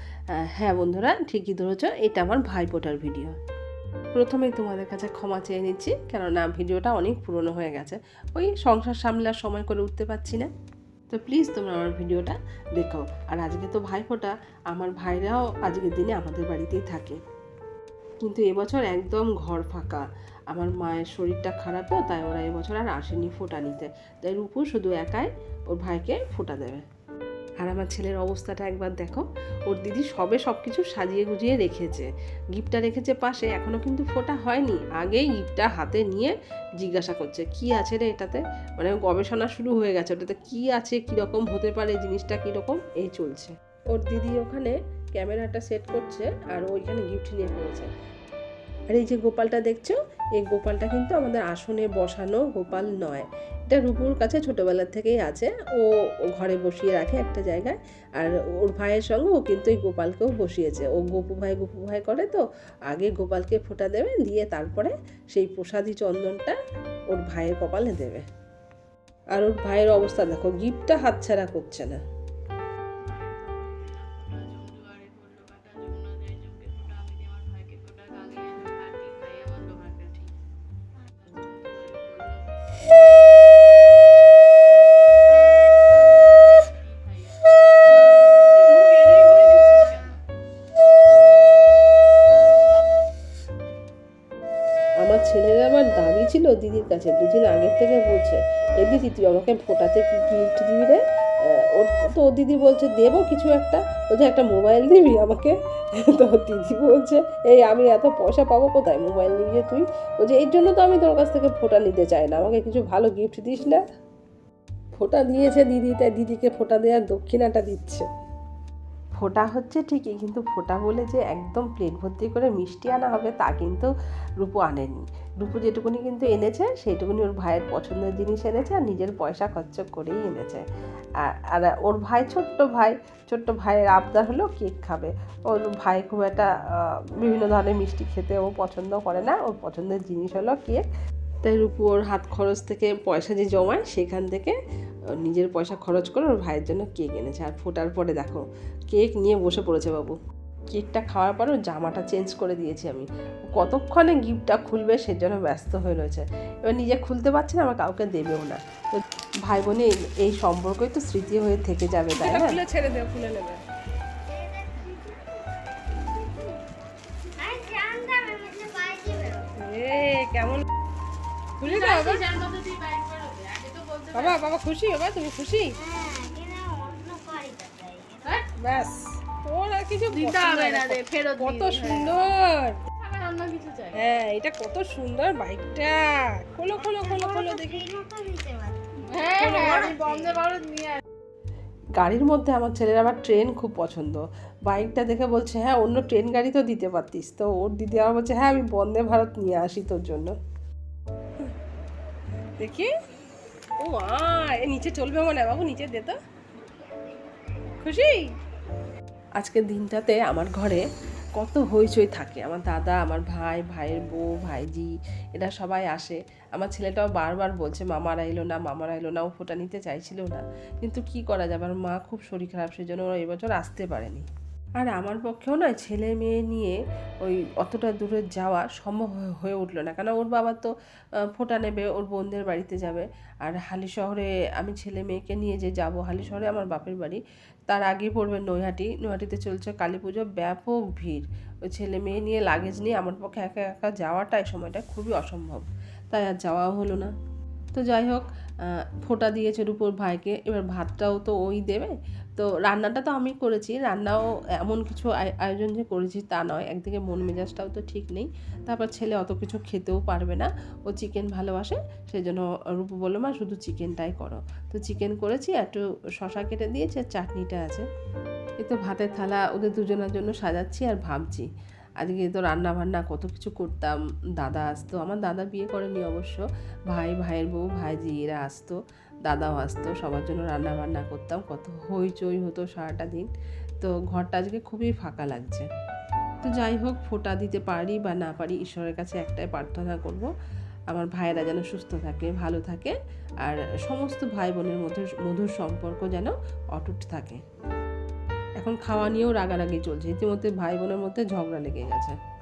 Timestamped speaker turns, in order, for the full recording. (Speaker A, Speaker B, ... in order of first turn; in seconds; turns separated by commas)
Speaker A: 0.3-3.4, Speaker A: 4.1-10.5, Speaker A: 11.1-17.2, Speaker A: 18.2-26.8, Speaker A: 27.6-47.9, Speaker A: 48.9-66.5, Speaker A: 67.1-68.2, Speaker A: 69.3-72.0, Speaker B: 73.0-80.3, Speaker B: 81.2-83.1, Speaker B: 84.2-90.2, Speaker A: 95.0-113.8, Speaker A: 115.0-118.0, Speaker A: 119.2-130.6, Speaker A: 131.2-140.8, Speaker A: 141.4-144.6, Speaker A: 145.1-150.2, Speaker A: 150.7-162.6, Speaker C: 162.2-163.6, Speaker D: 164.3-166.6, Speaker D: 167.4-169.5, Speaker A: 169.7-170.6, Speaker C: 169.8-170.5, Speaker B: 171.6-174.5, Speaker C: 171.6-172.2, Speaker C: 174.1-175.6, Speaker A: 174.6-175.6, Speaker D: 175.7-178.4, Speaker C: 178.6-182.7, Speaker B: 180.1-182.2, Speaker B: 183.0-184.1, Speaker C: 183.9-187.8, Speaker D: 186.8-190.4, Speaker B: 189.1-191.0, Speaker A: 192.0-200.3, Speaker C: 202.6-202.9, Speaker A: 203.8-206.1, Speaker C: 207.8-208.2, Speaker A: 209.4-210.8, Speaker A: 211.3-224.2, Speaker A: 224.8-230.7, Speaker A: 231.3-247.1, Speaker A: 247.7-267.8, Speaker A: 268.6-271.5, Speaker A: 272.0-283.3, Speaker A: 283.8-285.7, Speaker A: 286.4-290.3, Speaker A: 290.9-297.4, Speaker A: 298.6-302.1